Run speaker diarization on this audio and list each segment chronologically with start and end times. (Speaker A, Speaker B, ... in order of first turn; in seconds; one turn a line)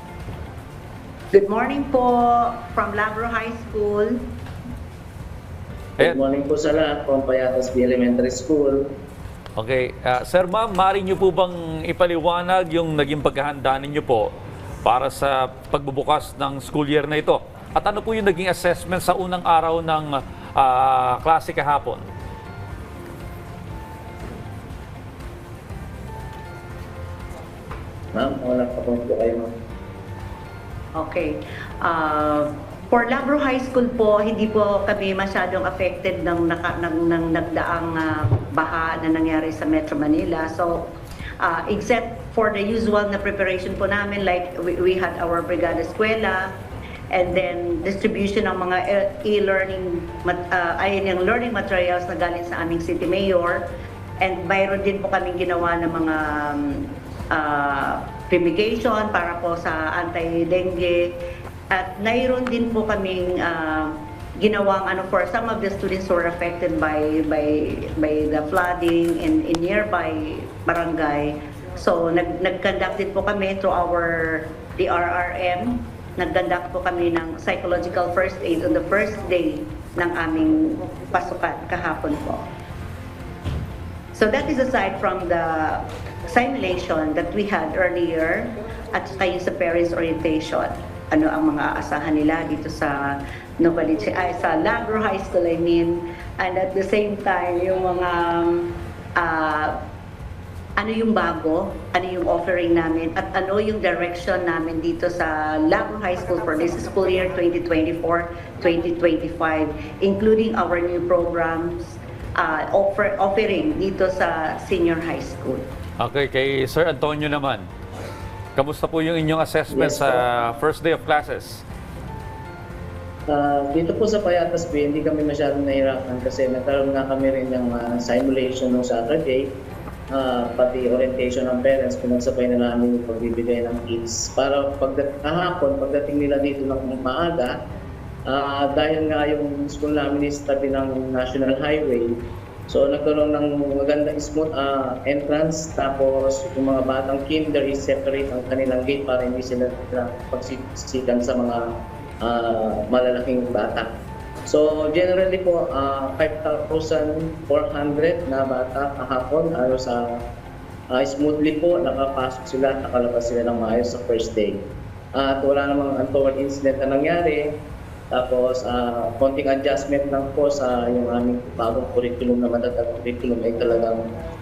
Speaker A: 1.3-4.2
Speaker B: 6.0-8.8
Speaker C: 9.6-14.3
Speaker C: 14.8-22.0
Speaker B: 28.1-29.5
Speaker A: 31.0-40.9
Speaker A: 41.4-46.5
Speaker A: 47.1-53.6
Speaker A: 54.2-56.8
Speaker A: 57.3-61.1
Speaker A: 61.7-82.5
Speaker A: 84.1-99.7
Speaker A: 100.8-115.7
Speaker C: 116.0-117.7
Speaker C: 118.6-121.6
Speaker B: 119.7-120.2
Speaker B: 123.3-129.5
Speaker B: 130.1-137.5
Speaker B: 138.3-142.2
Speaker B: 142.7-151.7
Speaker B: 152.2-153.9
Speaker B: 154.5-160.2
Speaker B: 160.9-164.6
Speaker B: 165.2-167.5
Speaker B: 168.1-174.1